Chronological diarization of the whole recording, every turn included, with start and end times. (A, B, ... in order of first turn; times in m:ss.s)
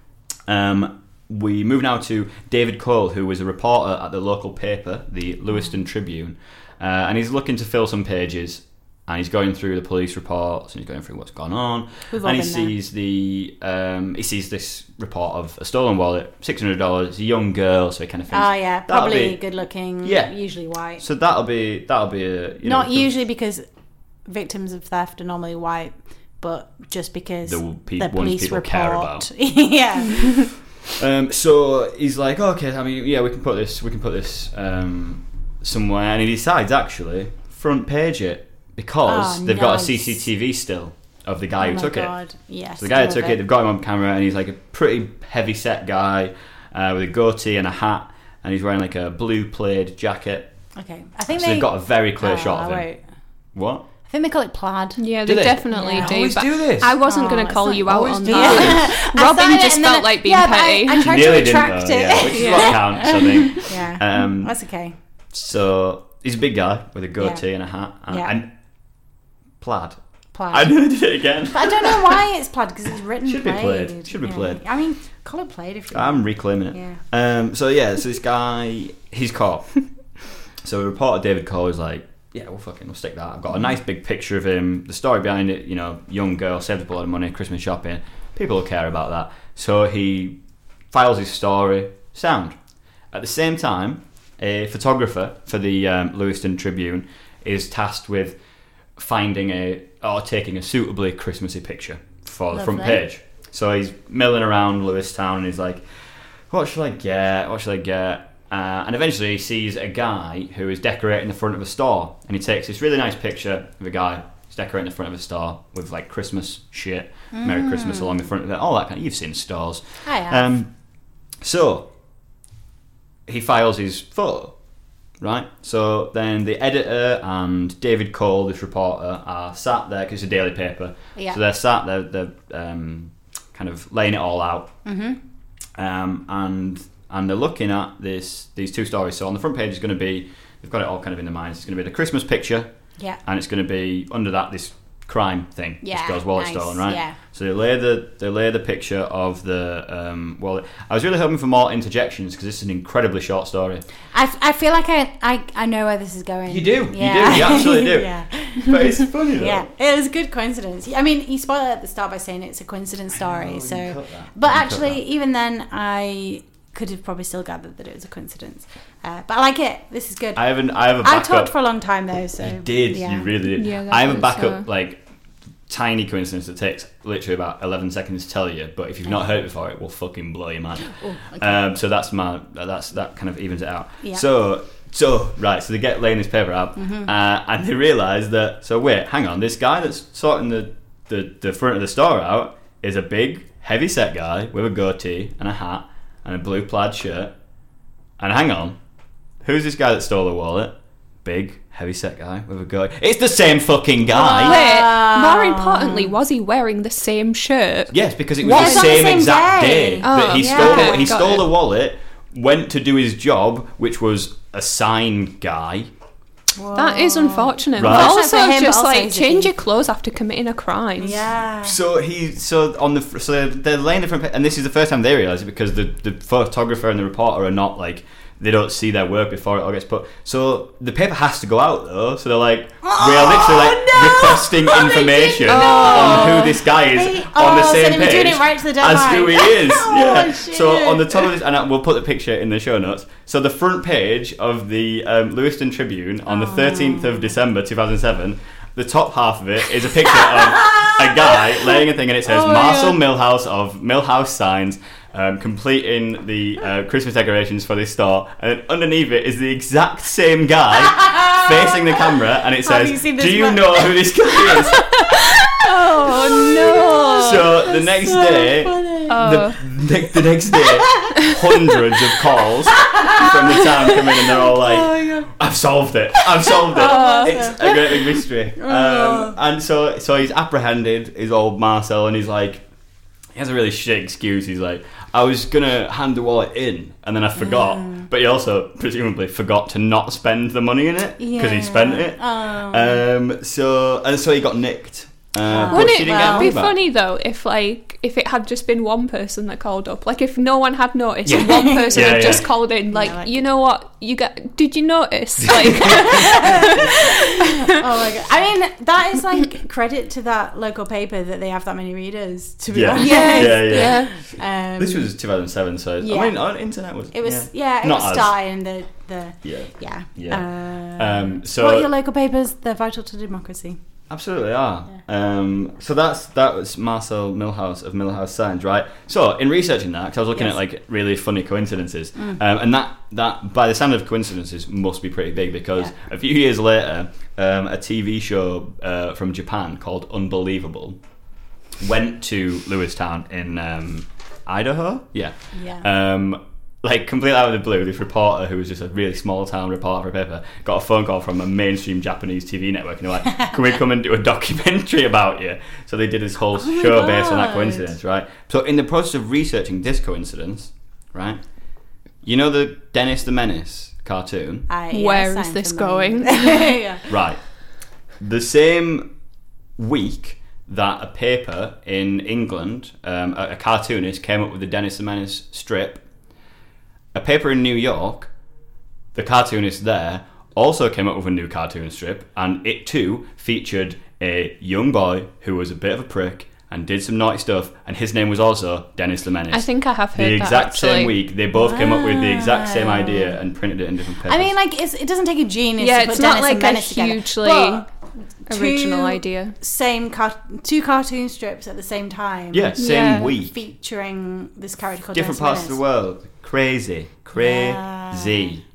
0:00.5-0:19.4 A
0:12.1-0:12.7 B
0:18.3-0:21.0 B
0:20.0-0:20.3 A
0:21.0-0:23.1 A
0:22.6-0:23.6 B
0:24.2-0:30.5 B
0:27.5-0:29.3 A
0:31.0-0:42.1 A
0:39.0-0:40.2 B
0:41.6-0:43.4 B
0:42.8-0:50.5 A
0:50.8-0:53.0 B
0:51.3-0:52.9 A
0:53.5-0:53.8 A
0:54.1-0:55.1 B
0:55.0-1:01.6 C
0:55.2-0:57.0 A
0:55.7-0:56.1 B
0:57.0-1:04.9 B
0:57.8-0:58.8 A
1:01.0-1:04.5 A
1:02.3-1:02.9 C
1:05.3-1:08.5 A
1:07.2-1:07.4 B
1:08.1-1:08.3 B
1:09.6-1:10.0 A
1:10.3-1:10.7 B
1:10.5-1:12.2 A
1:11.5-1:17.0 B
1:13.2-1:14.6 A
1:15.9-1:19.9 A
1:20.6-1:30.4 A
1:30.9-1:32.6 A
1:33.1-1:38.4 A
1:39.0-1:45.8 A
1:42.5-1:43.0 B
1:46.5-2:00.7 A
1:57.3-1:58.2 B
2:00.0-2:00.5 B
2:01.4-2:01.9 A
2:03.3-2:04.5 A
2:05.2-2:14.7 A
2:14.8-2:15.2 B
2:15.8-2:22.7 A
2:23.2-2:33.8 A
2:25.8-2:27.2 B
2:34.1-2:53.3 B
2:36.5-2:39.7 A
2:43.2-2:45.0 A
2:50.4-2:51.5 A
2:52.4-2:55.0 A
2:53.6-2:54.6 C
2:55.7-3:17.3 A
3:01.0-3:01.6 B
3:06.8-3:07.1 B
3:18.2-3:18.8 A
3:19.4-3:24.6 A
3:24.1-3:26.2 B
3:24.4-3:29.1 C
3:27.9-3:35.9 A
3:28.5-3:31.2 B
3:30.0-3:31.5 C
3:36.6-3:39.5 B
3:36.7-3:41.2 C
3:37.8-3:38.2 A
3:41.0-3:41.8 B
3:41.6-4:25.0 A
3:52.8-4:01.3 B
3:55.5-3:56.6 C
4:06.3-4:07.3 B
4:10.3-4:13.0 B
4:20.9-4:22.0 B
4:22.6-4:29.3 B
4:25.6-4:27.5 C
4:27.2-4:42.6 A
4:29.1-4:29.6 C
4:30.1-4:31.9 B
4:32.7-4:35.3 B
4:36.2-4:39.4 B
4:36.7-4:37.5 C
4:43.3-4:56.7 A
4:47.4-4:48.1 B
4:51.2-4:53.0 B
4:55.4-4:56.5 B
4:55.7-5:07.0 C
5:01.2-5:02.4 A
5:01.4-5:03.4 B
5:05.7-5:06.1 A
5:05.9-5:15.1 B
5:12.7-5:18.3 A
5:13.0-5:14.1 C
5:16.0-5:16.4 B
5:17.1-5:23.8 B
5:19.4-5:21.9 A
5:24.1-5:41.0 A
5:41.8-6:01.4 A
5:45.5-5:45.8 B
5:56.5-5:57.9 B
6:02.2-6:04.7 A
6:04.7-6:07.0 B
6:04.9-6:06.7 C
6:07.1-6:07.5 A
6:08.2-6:09.1 A
6:09.8-6:16.0 A
6:17.1-6:18.3 A
6:19.1-6:34.5 A
6:29.5-6:31.2 C
6:31.5-6:33.4 B
6:34.3-6:37.9 B
6:35.8-6:37.9 C
6:38.5-6:45.8 B
6:38.5-6:39.6 C
6:42.5-6:43.5 A
6:42.8-6:43.3 C
6:45.1-6:48.6 A
6:47.4-6:48.5 B